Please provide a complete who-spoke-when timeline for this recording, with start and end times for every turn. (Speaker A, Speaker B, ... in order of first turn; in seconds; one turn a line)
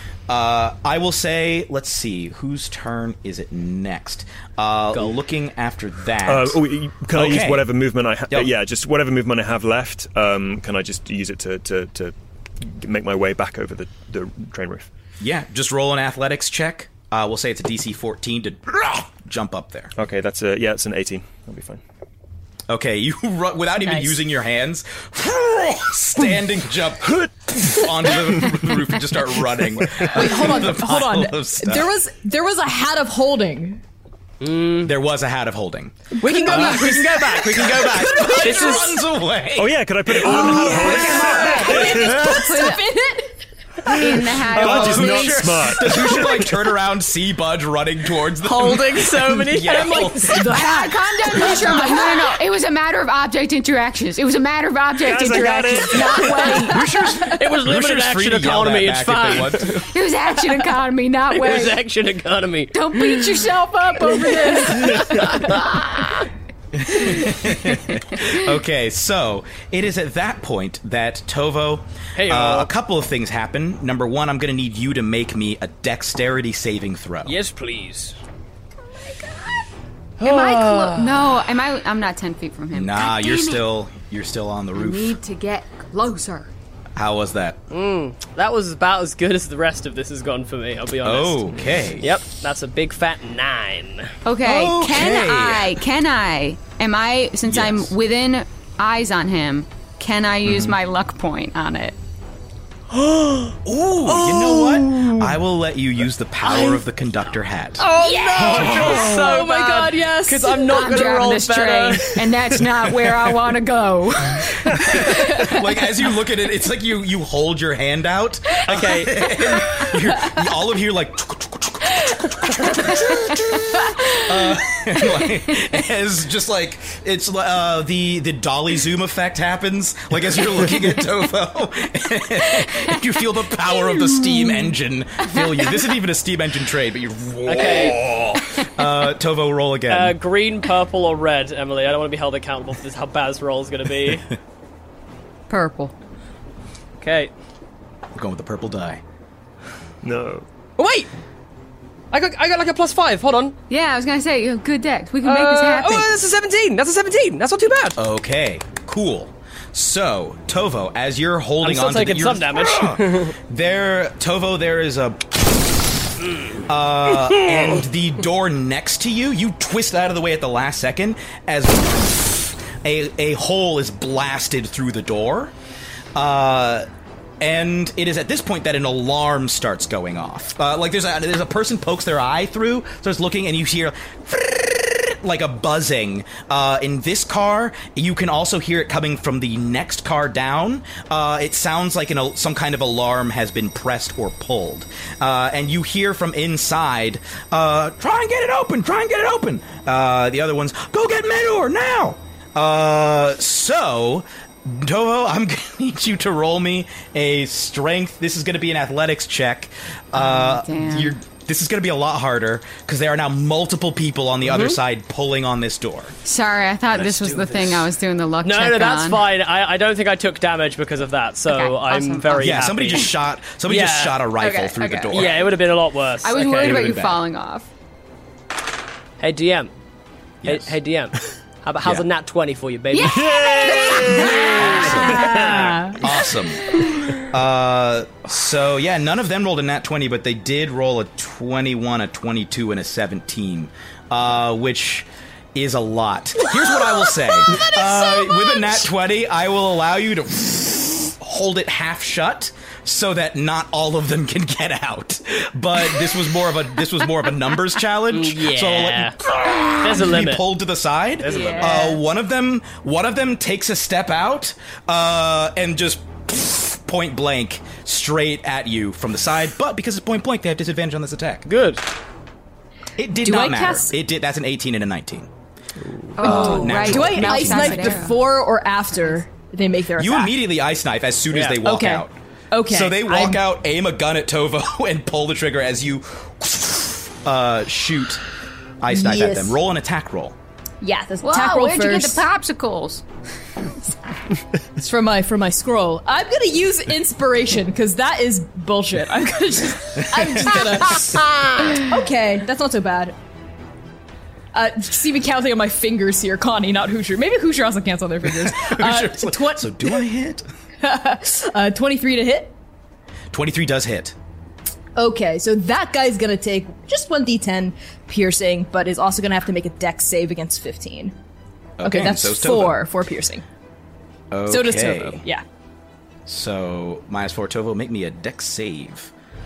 Speaker A: 0.3-6.6
Speaker B: 6.2-14.9
Speaker A: 7.1-7.7
Speaker A: 15.2-19.9
Speaker B: 19.9-21.8
Speaker A: 22.7-31.9
Speaker B: 27.1-28.5
Speaker C: 30.1-33.8
Speaker D: 34.4-34.9
Speaker A: 34.8-42.0
Speaker D: 36.2-38.9
Speaker C: 36.2-38.6
Speaker B: 39.5-42.7
Speaker C: 40.2-43.4
Speaker E: 40.8-42.9
Speaker B: 43.8-46.6
Speaker E: 43.9-45.7
Speaker A: 44.5-50.7
Speaker D: 48.4-50.5
Speaker C: 50.0-52.0
Speaker E: 50.4-56.8
Speaker A: 51.3-51.6
Speaker B: 55.0-56.7
Speaker A: 56.6-59.9
Speaker D: 57.2-59.9
Speaker E: 59.7-61.8
Speaker D: 61.3-63.4
Speaker E: 62.7-65.8
Speaker D: 64.5-66.3
Speaker A: 66.7-77.3
Speaker E: 67.0-67.4
Speaker D: 72.2-72.7
Speaker D: 77.2-78.2
Speaker D: 80.2-81.3
Speaker E: 80.2-83.6
Speaker A: 82.7-85.2
Speaker E: 84.7-86.5
Speaker A: 87.0-87.6
Speaker D: 87.7-94.1
Speaker A: 91.0-92.1
Speaker E: 94.2-102.0
Speaker A: 94.4-95.8
Speaker A: 97.5-97.9
Speaker A: 100.4-100.7
Speaker D: 103.0-103.5
Speaker A: 103.6-109.1
Speaker D: 104.2-104.7
Speaker D: 107.8-112.2
Speaker C: 107.9-111.2
Speaker E: 110.7-115.4
Speaker A: 114.8-140.2
Speaker D: 118.7-119.2
Speaker D: 137.4-138.0
Speaker D: 139.9-144.2
Speaker E: 145.5-145.9
Speaker D: 147.0-147.3
Speaker A: 148.1-149.0
Speaker B: 150.0-150.4
Speaker D: 150.8-151.1
Speaker D: 152.1-153.5
Speaker E: 153.7-156.1
Speaker D: 155.2-158.0
Speaker A: 158.0-166.1
Speaker D: 161.6-163.3
Speaker A: 166.6-175.5
Speaker D: 167.3-167.8
Speaker A: 176.1-176.9
Speaker A: 177.4-216.1
Speaker E: 210.1-211.2
Speaker D: 214.4-214.8
Speaker E: 216.2-219.2
Speaker D: 217.0-217.6
Speaker D: 218.4-223.1
Speaker E: 221.5-222.6
Speaker A: 222.4-225.5
Speaker D: 223.7-224.3
Speaker E: 224.4-225.4
Speaker D: 225.1-226.9
Speaker E: 226.2-227.7
Speaker A: 226.6-227.2
Speaker D: 229.2-229.7
Speaker A: 230.4-230.7
Speaker D: 230.4-234.2
Speaker E: 233.0-235.5
Speaker C: 233.0-236.1
Speaker B: 233.1-234.5
Speaker A: 234.5-271.5
Speaker D: 235.3-235.7
Speaker C: 247.5-248.7
Speaker D: 258.1-259.2
Speaker D: 259.8-260.4
Speaker D: 261.2-261.9
Speaker E: 261.3-262.0
Speaker D: 271.4-271.8
Speaker A: 273.0-275.3
Speaker C: 273.2-273.9
Speaker E: 276.2-278.2
Speaker C: 276.2-280.4
Speaker D: 276.2-276.8
Speaker A: 276.2-277.9
Speaker A: 280.0-282.1
Speaker D: 281.3-281.6
Speaker C: 281.6-283.4
Speaker A: 282.6-288.2
Speaker A: 288.8-290.3
Speaker C: 288.9-289.6
Speaker C: 290.8-292.2
Speaker E: 291.2-293.0
Speaker C: 294.8-303.1
Speaker A: 300.0-300.9
Speaker C: 304.5-310.0
Speaker A: 308.2-310.4
Speaker C: 310.8-312.5
Speaker A: 313.3-314.1
Speaker C: 314.9-321.1
Speaker A: 321.8-322.8
Speaker C: 321.8-323.4
Speaker A: 324.3-325.2
Speaker C: 324.5-325.4
Speaker A: 326.3-329.1